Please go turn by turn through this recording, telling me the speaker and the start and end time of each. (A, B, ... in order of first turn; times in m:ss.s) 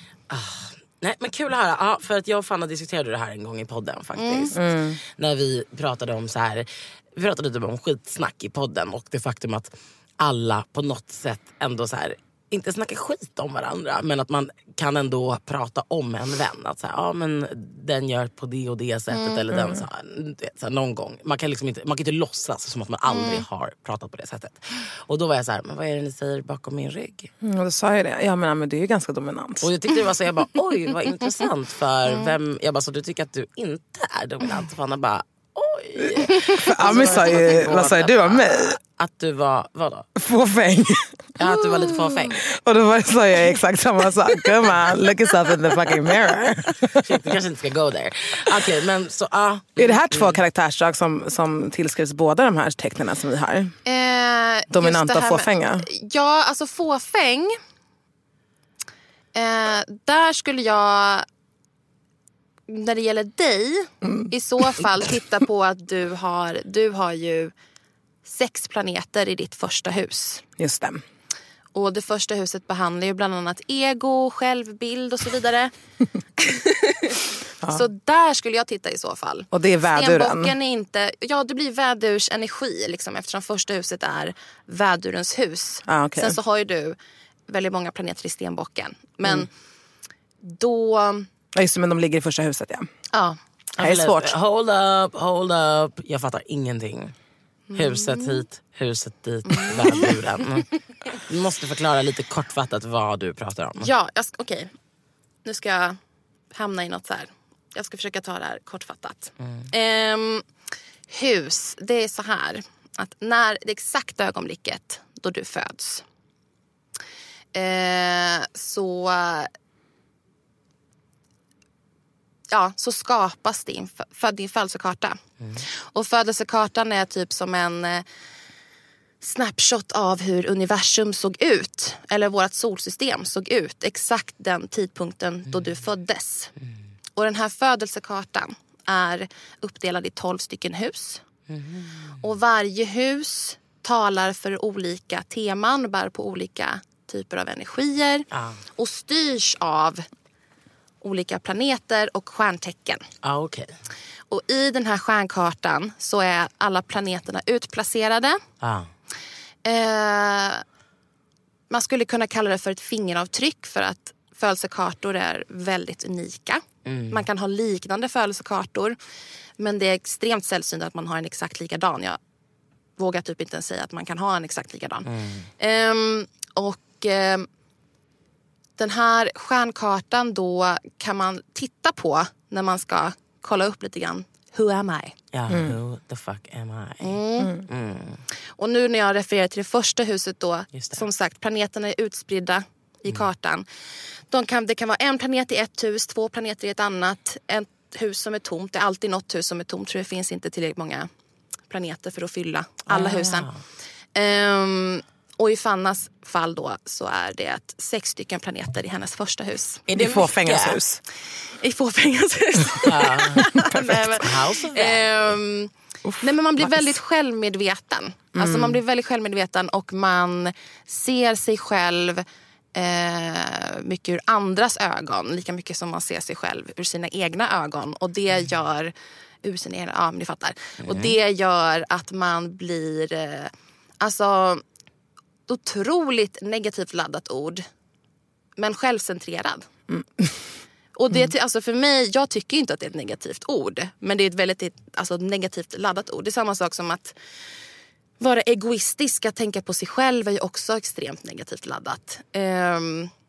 0:00.3-0:27.3 A
0:04.2-0:04.6 B
0:04.5-0:05.0 C
0:19.5-0:19.8 C
0:23.1-0:23.4 B
0:27.4-0:29.7 C
0:29.6-0:40.1 A
0:36.5-0:38.8 C
0:40.2-0:41.4 C
0:41.4-0:42.4 A
0:42.2-0:47.1 C
0:46.2-0:50.4 A
0:49.8-0:53.7 C
0:53.8-0:57.5 B
0:54.7-0:55.9 C
0:59.3-1:01.2 B
1:02.7-1:07.5 B
1:08.2-1:10.4 B
1:10.6-1:11.0 C
1:11.7-1:15.7 B
1:16.4-1:27.0 B
1:19.5-1:20.5 C
1:25.9-1:26.4 C
1:27.5-1:29.5 B
1:30.4-1:31.3 B
1:31.6-1:32.9 C
1:33.1-1:33.4 B
1:33.8-1:37.1 A
1:33.8-1:34.4 C
1:37.7-1:38.4 B
1:37.8-1:43.9 A
1:39.5-1:40.2 B
1:43.8-1:44.7 B
1:45.4-1:46.0 B
1:46.5-1:50.4 B
1:51.1-1:56.0 B
1:57.5-1:59.5 B
2:02.5-2:08.0 B
2:09.2-2:16.5 B
2:17.2-2:21.2 B
2:21.5-2:22.1 A
2:22.2-2:30.0 B
2:28.3-2:28.6 A
2:31.0-2:33.0 B
2:33.2-2:33.7 A
2:34.3-2:38.4 B
2:38.6-2:38.9 A
2:39.6-2:40.6 B
2:41.7-2:49.0 B
2:46.9-2:47.2 A
2:49.6-2:52.2 B
2:53.0-2:57.5 B
2:55.1-2:55.5 A
2:58.8-3:05.2 B
3:05.3-3:08.2 A
3:05.5-3:05.8 C
3:07.0-3:07.6 B
3:07.4-3:07.6 C
3:08.6-3:13.7 B
3:10.7-3:11.0 A
3:14.3-3:21.1 B
3:21.7-3:23.5 B
3:22.9-3:23.6 A
3:24.2-3:29.9 B
3:29.9-3:30.8 A
3:30.0-3:31.0 C
3:31.6-3:54.6 B
3:32.8-3:35.3 A
3:33.7-3:34.0 C
3:36.1-3:36.8 C
3:38.4-3:38.8 C
3:50.8-3:51.2 A
3:55.5-3:57.6 B
3:58.6-3:59.7 B
3:59.9-4:00.2 C
4:01.0-4:07.2 B
4:08.2-4:13.1 B